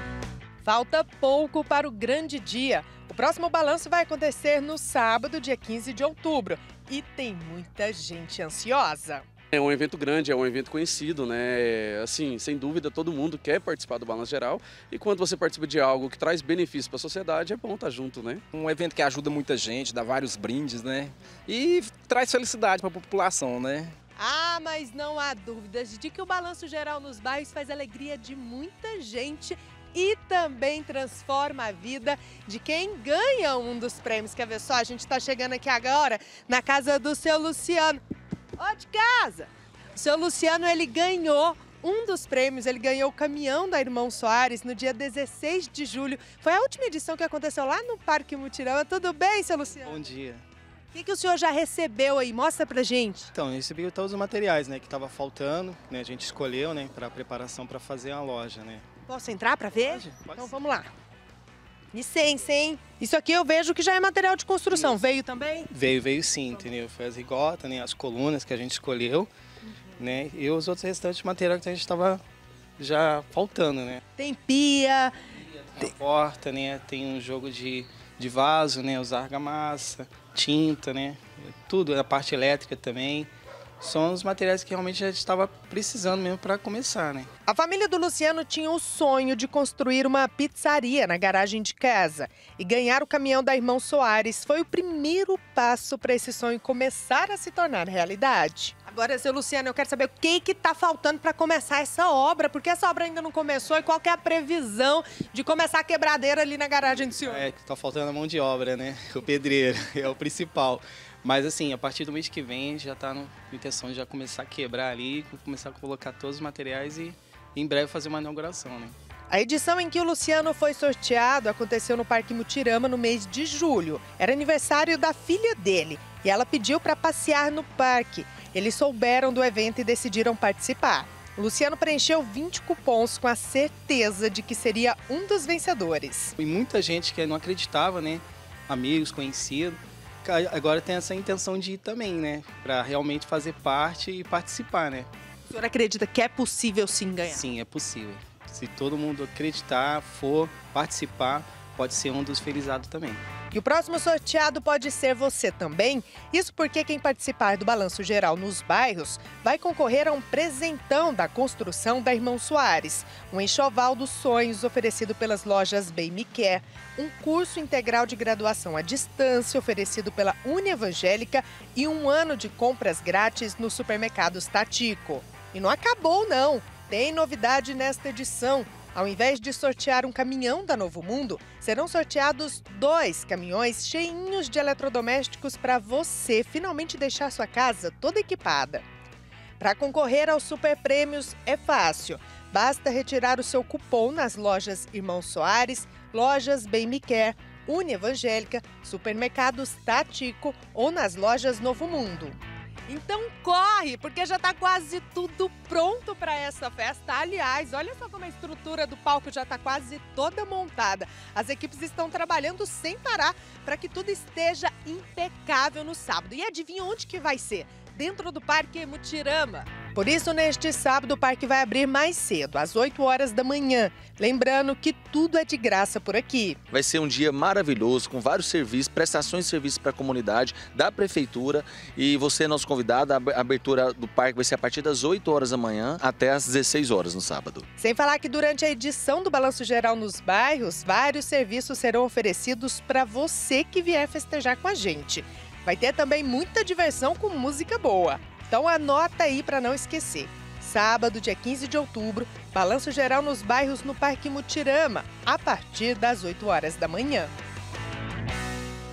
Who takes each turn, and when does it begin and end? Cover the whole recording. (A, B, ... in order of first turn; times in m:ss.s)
0:00.6-0:09.2 A
0:09.5-0:18.4 B
0:18.5-0:23.9 C
0:24.2-0:38.0 A
0:38.6-0:49.9 A
0:49.8-0:50.4 D
0:50.9-0:53.3 A
0:53.4-0:58.8 D
0:59.1-1:00.9 A
0:59.8-1:00.5 D
1:01.9-1:05.7 A
1:05.7-1:09.3 D
1:10.0-1:12.2 D
1:12.8-1:14.0 D
1:14.2-1:15.1 A
1:15.8-1:27.3 D
1:27.5-1:47.4 A
1:47.3-1:59.0 D
1:59.3-2:16.4 A
2:16.4-2:25.1 D
2:25.5-2:27.4 A
2:27.3-2:33.2 D
2:33.5-3:08.8 A
3:09.6-3:22.4 A
3:22.9-3:46.6 A
3:46.7-3:57.6 E
3:57.8-4:17.3 A